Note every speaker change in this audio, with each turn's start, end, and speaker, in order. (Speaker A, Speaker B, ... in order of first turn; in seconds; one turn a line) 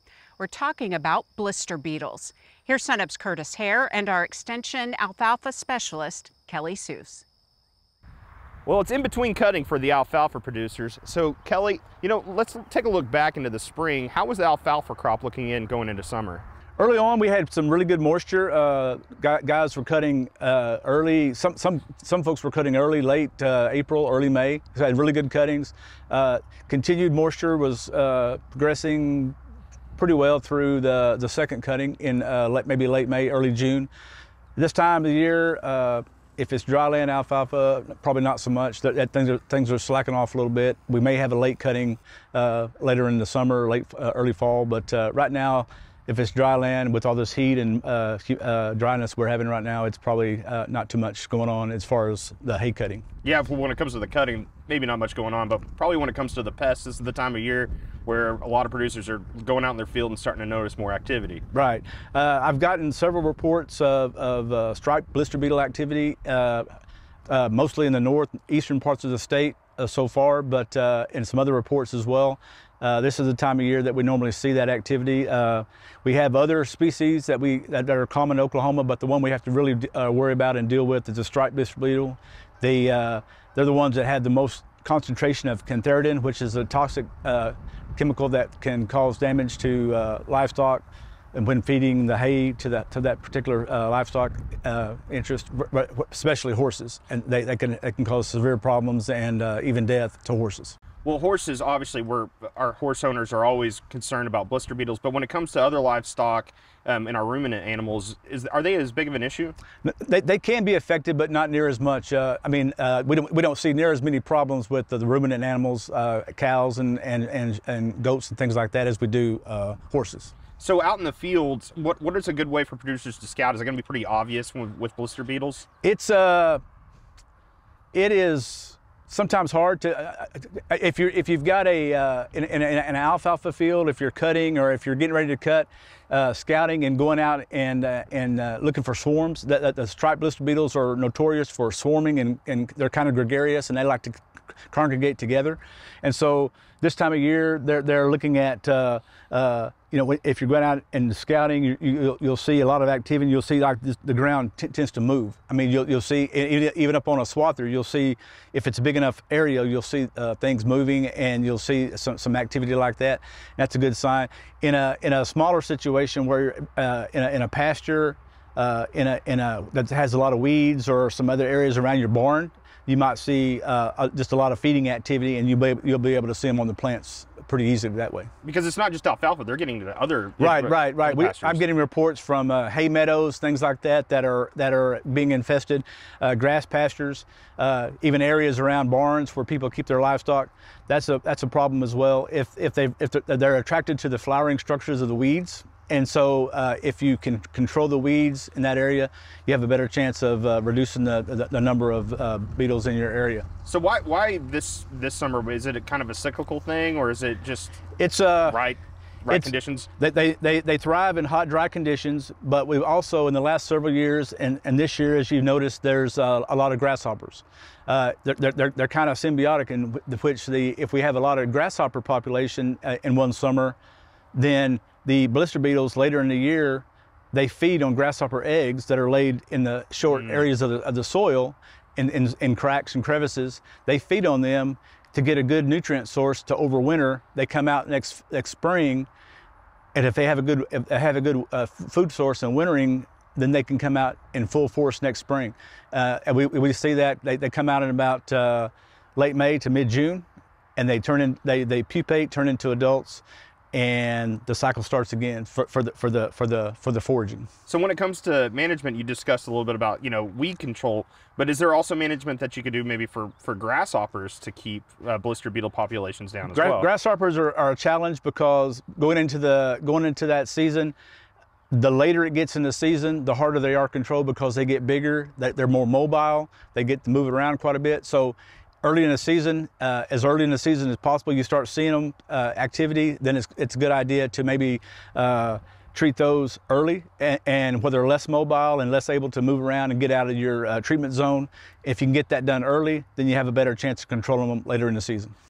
Speaker A: 0.4-7.2
Speaker B: 8.7-16.4
Speaker C: 16.8-29.4
Speaker C: 29.9-33.9
Speaker C: 34.5-53.0
Speaker B: 53.2-61.4
Speaker C: 61.5-66.7
Speaker C: 67.3-100.8
Speaker B: 101.0-109.5
Speaker C: 109.8-120.3
Speaker B: 120.6-125.7
Speaker C: 125.8-126.6
Speaker C: 127.9-178.3
Speaker B: 178.4-181.6
Speaker C: 180.4-203.4
Speaker B: 203.6-207.8
Speaker C: 208.0-208.6
Speaker B: 208.5-209.9
Speaker C: 209.3-223.8
Speaker C: 224.3-239.1
Speaker B: 230.1-230.5
Speaker C: 239.9-257.5
Speaker B: 257.7-266.9
Speaker C: 266.5-270.9
Speaker C: 271.7-295.3